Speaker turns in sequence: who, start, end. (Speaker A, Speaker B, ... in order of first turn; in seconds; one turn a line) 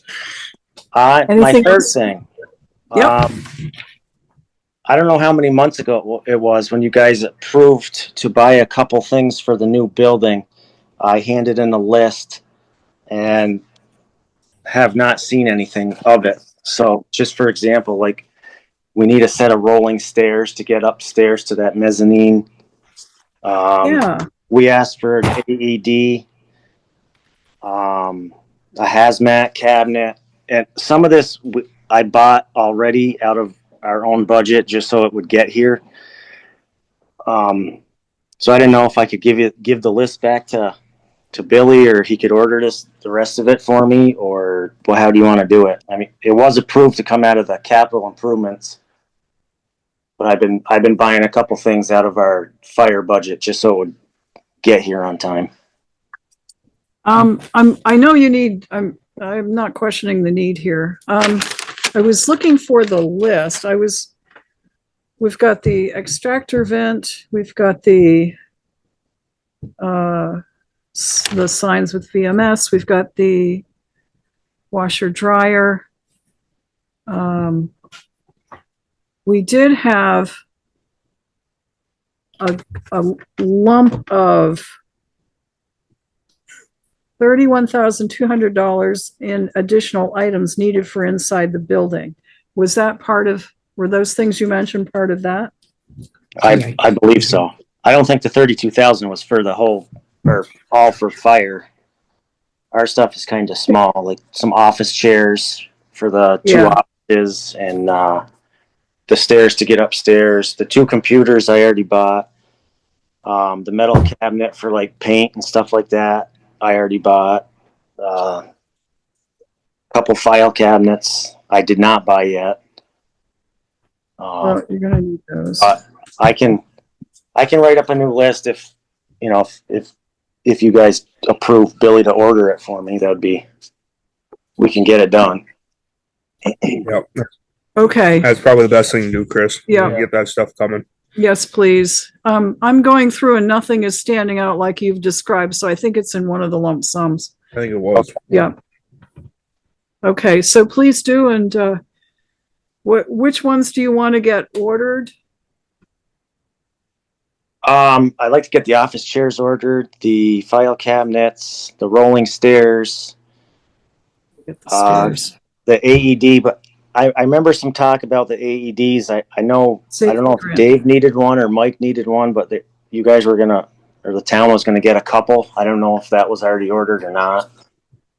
Speaker A: 0.9-2.2
Speaker B: 1.3-1.9
Speaker A: 2.9-3.5
Speaker A: 4.9-10.4
Speaker A: 11.0-12.4
Speaker A: 13.1-13.6
Speaker A: 14.7-18.2
Speaker A: 18.9-22.4
Speaker A: 23.4-26.2
Speaker B: 23.8-24.2
Speaker A: 27.6-35.8
Speaker A: 37.2-37.8
Speaker A: 38.4-40.7
Speaker A: 41.3-48.8
Speaker A: 50.2-53.9
Speaker A: 54.6-55.5
Speaker B: 57.0-64.1
Speaker B: 65.2-68.3
Speaker B: 69.8-70.4
Speaker B: 70.9-73.6
Speaker B: 74.7-75.8
Speaker B: 77.1-77.7
Speaker B: 79.2-80.3
Speaker B: 82.4-84.6
Speaker B: 87.2-95.5
Speaker A: 96.4-101.7
Speaker A: 102.7-108.2
Speaker B: 106.4-106.8
Speaker A: 109.1-112.3
Speaker A: 113.2-117.5
Speaker A: 118.0-118.4
Speaker A: 119.9-122.6
Speaker A: 124.2-124.6
Speaker B: 124.4-125.7
Speaker A: 125.6-126.6
Speaker A: 127.3-128.7
Speaker A: 129.2-129.9
Speaker A: 130.4-133.4
Speaker A: 134.6-135.4
Speaker A: 136.5-136.8
Speaker B: 137.8-138.3
Speaker C: 138.2-140.8
Speaker B: 139.7-140.0
Speaker B: 141.1-147.3
Speaker C: 147.5-148.2
Speaker B: 148.3-148.6
Speaker B: 150.0-151.8
Speaker B: 152.8-155.1
Speaker A: 157.6-163.1
Speaker B: 164.4-165.3
Speaker A: 164.7-177.5
Speaker B: 169.9-170.7